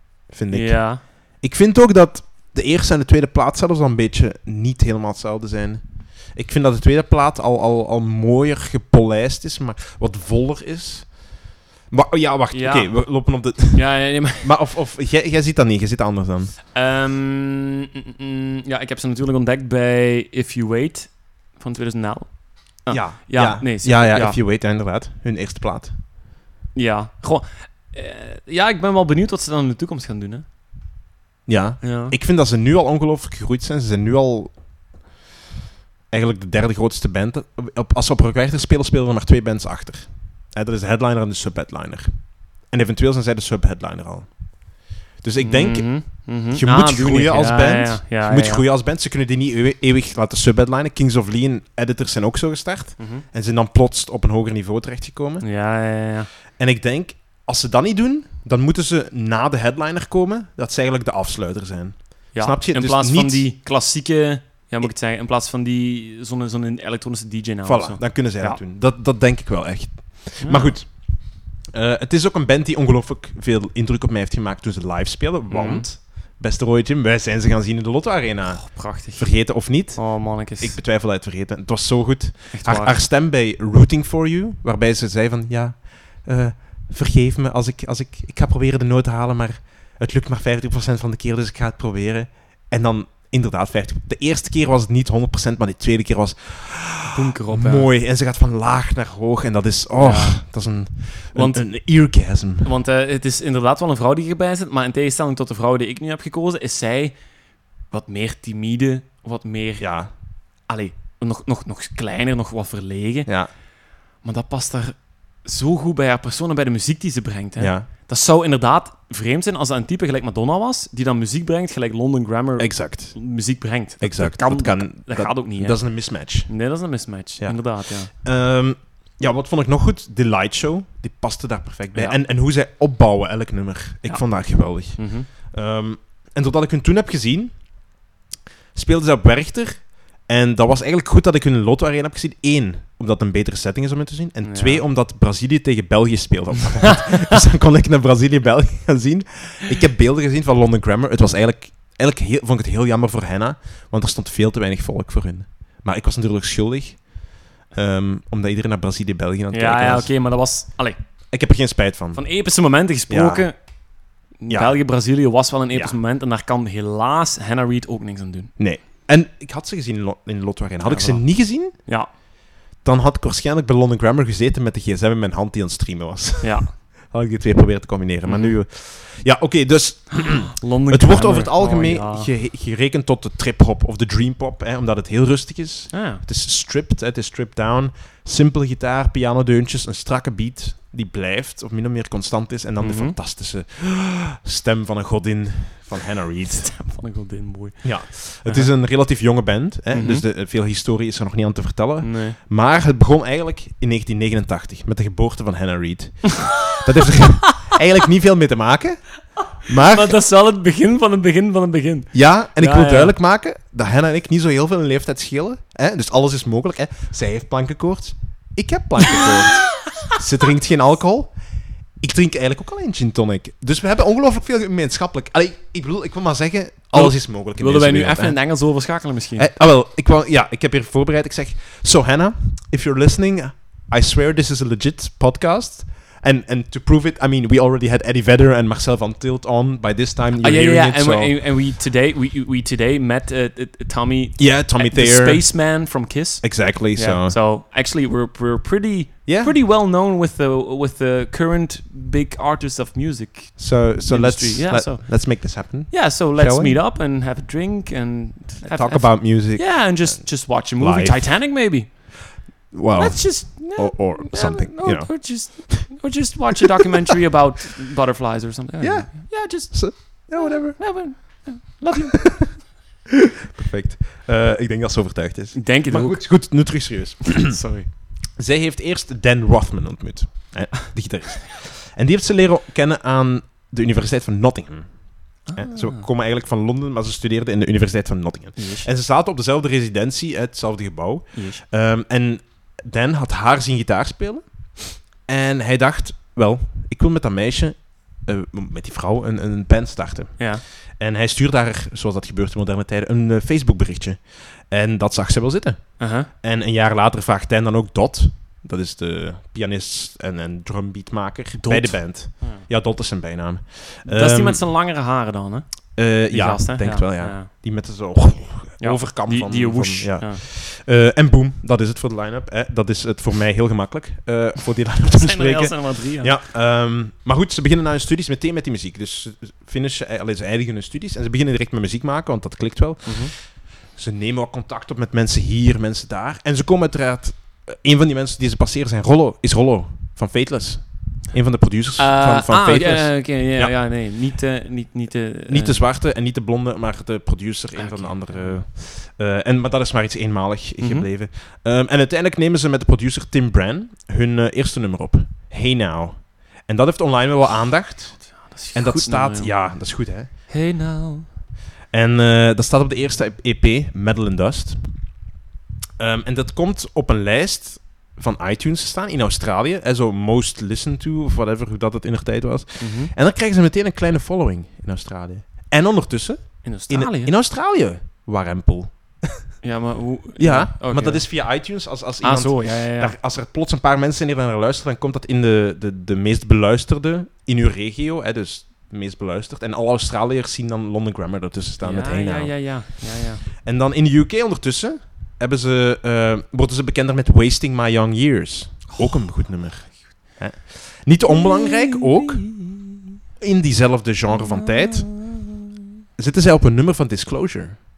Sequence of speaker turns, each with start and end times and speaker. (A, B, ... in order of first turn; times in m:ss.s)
0:00.3-0:05.8 A
0:00.5-0:01.0 B
0:06.3-0:11.1 A
0:11.9-0:16.6 A
0:12.5-0:13.0 B
0:13.7-0:14.5 B
0:16.7-0:24.4 B
0:22.9-0:26.0 A
0:26.7-0:30.5 B
0:31.5-0:34.6 A
0:31.8-0:32.2 B
0:36.1-0:44.4 A
0:45.2-0:45.9 A
0:45.4-0:48.6 B
0:46.5-0:55.5 A
0:53.0-0:53.2 B
0:55.4-0:56.3 B
0:56.6-1:03.5 A
1:02.3-1:08.6 B
1:07.6-1:10.9 A
1:10.4-1:10.8 B
1:11.7-1:42.7 A
1:15.5-1:15.9 B
1:18.5-1:20.8 B
1:22.5-1:23.0 B
1:37.1-1:37.9 B
1:40.0-1:40.4 B
1:41.3-1:41.6 B
1:42.6-1:47.2 B
1:47.9-1:49.8 B
1:49.8-1:50.1 A
1:50.7-1:53.3 B
1:54.2-2:05.8 B
1:57.6-1:57.9 A
2:02.6-2:03.2 A
2:04.0-2:06.6 A
2:06.5-2:08.1 B
2:07.4-2:17.6 A
2:14.1-2:15.3 B
2:18.8-2:40.1 A
2:24.4-2:24.8 B
2:39.5-2:41.0 B
2:41.3-2:42.2 A
2:42.2-2:43.5 B
2:43.1-2:43.5 A
2:44.4-2:48.5 B
2:44.5-2:44.8 A
2:48.6-2:51.8 A
2:50.8-2:52.1 B
2:52.8-3:16.7 A
2:56.4-2:56.7 B
2:58.3-2:58.5 B
3:00.2-3:02.3 B
3:05.9-3:06.2 B
3:12.8-3:13.2 B
3:16.4-3:18.7 B
3:17.8-3:29.0 A
3:19.9-3:20.2 B
3:22.0-3:22.4 B
3:26.5-3:27.7 B
3:29.7-3:30.2 A
3:29.8-3:33.1 B
3:32.1-3:41.3 A
3:39.1-3:39.4 B
3:42.0-3:48.4 A
3:46.9-3:49.5 B
3:49.4-4:01.4 A
4:00.4-4:22.2 B
4:04.4-4:05.6 A
4:06.4-4:07.4 A
4:09.3-4:09.6 A
4:13.6-4:16.8 A
4:18.6-4:21.4 A
4:22.7-4:25.9 A
4:22.9-4:32.6 B
4:28.8-4:32.7 A
4:33.4-5:14.6 A
4:35.5-4:37.9 B
4:45.5-4:46.0 B
4:48.6-4:48.9 B
4:51.3-4:51.6 B
5:00.4-5:00.6 B
5:06.0-5:06.3 B
5:11.5-5:12.6 B
5:14.1-5:15.7 B
5:16.0-5:43.7 A
5:16.3-5:17.5 B
5:18.8-5:20.4 B
5:25.1-5:26.4 B
5:33.1-5:33.3 B
5:42.0-5:45.8 B
5:45.5-6:00.3 A
5:47.7-5:48.6 B
5:50.8-5:51.1 B
5:58.4-5:59.5 B
6:00.5-6:01.3 B
6:01.9-6:04.8 A
6:06.0-6:19.5 A
6:12.8-6:13.1 B
6:16.6-6:17.3 B
6:19.6-6:21.3 B
6:20.4-6:32.8 A
6:22.2-6:23.1 B
6:31.8-6:33.4 B
6:33.6-6:42.5 A
6:38.9-6:39.3 B
6:41.3-6:43.2 B
6:43.4-6:45.1 A
6:44.3-6:45.8 B
6:46.2-6:47.8 A